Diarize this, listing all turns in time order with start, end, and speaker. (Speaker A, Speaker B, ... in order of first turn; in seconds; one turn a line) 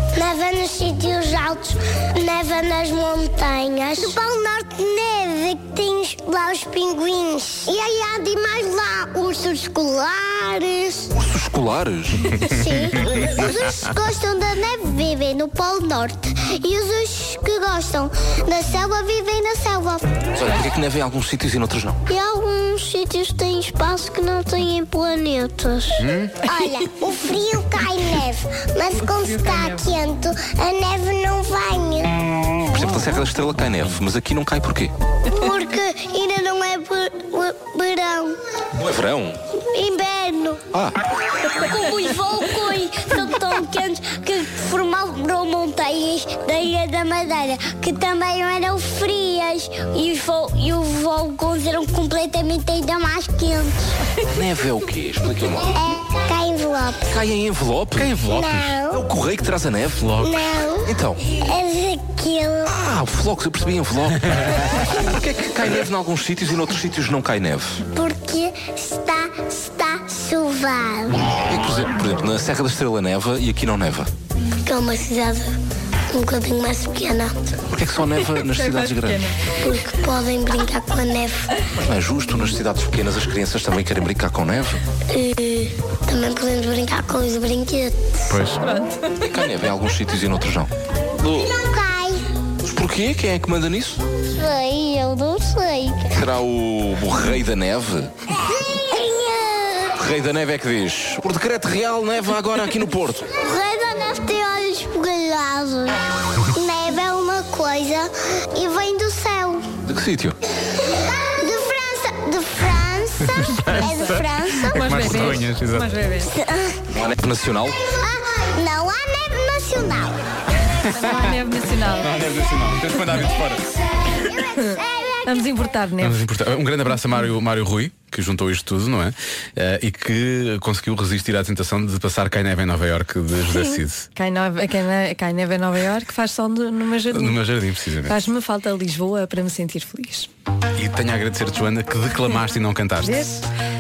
Speaker A: 0.1-11.1
Speaker B: 11.1-12.4
Speaker A: 12.5-20.1
Speaker B: 20.3-22.0
Speaker A: 22.1-32.2
Speaker C: 26.0-26.4
Speaker D: 29.0-29.8
Speaker B: 32.7-34.9
Speaker A: 35.2-38.4
Speaker B: 38.7-39.4
Speaker A: 39.5-40.6
Speaker B: 40.7-41.0
Speaker A: 41.4-54.0
Speaker B: 54.2-55.7
Speaker A: 55.7-57.2
Speaker B: 57.1-60.1
Speaker A: 58.0-59.0
Speaker C: 58.2-58.7
Speaker C: 60.0-60.5
Speaker A: 60.2-62.7
Speaker B: 60.9-61.3
Speaker B: 62.7-67.8
Speaker A: 67.9-71.4
Speaker B: 71.4-74.1
Speaker A: 74.6-75.6
Speaker A: 76.1-77.3
Speaker B: 77.7-79.3
Speaker D: 78.1-79.5
Speaker A: 79.6-81.6
Speaker B: 81.7-84.8
Speaker A: 85.1-88.3
Speaker C: 88.3-88.6
Speaker D: 88.6-89.3
Speaker B: 89.2-90.7
Speaker A: 91.2-92.3
Speaker B: 92.6-94.0
Speaker A: 94.2-96.2
Speaker B: 96.1-98.1
Speaker A: 98.4-100.0
Speaker B: 100.0-103.3
Speaker A: 103.4-109.7
Speaker B: 109.9-110.4
Speaker A: 110.7-115.3
Speaker C: 113.3-115.9
Speaker D: 113.6-116.3
Speaker A: 116.2-116.9
Speaker B: 116.9-117.8
Speaker A: 117.8-120.2
Speaker D: 120.8-122.1
Speaker C: 120.9-121.3
Speaker C: 122.0-123.7
Speaker A: 124.0-125.6
Speaker D: 124.6-126.2
Speaker C: 126.0-134.1
Speaker D: 133.5-137.4
Speaker C: 137.1-138.2
Speaker D: 138.0-140.3
Speaker C: 140.8-143.3
Speaker D: 143.0-143.4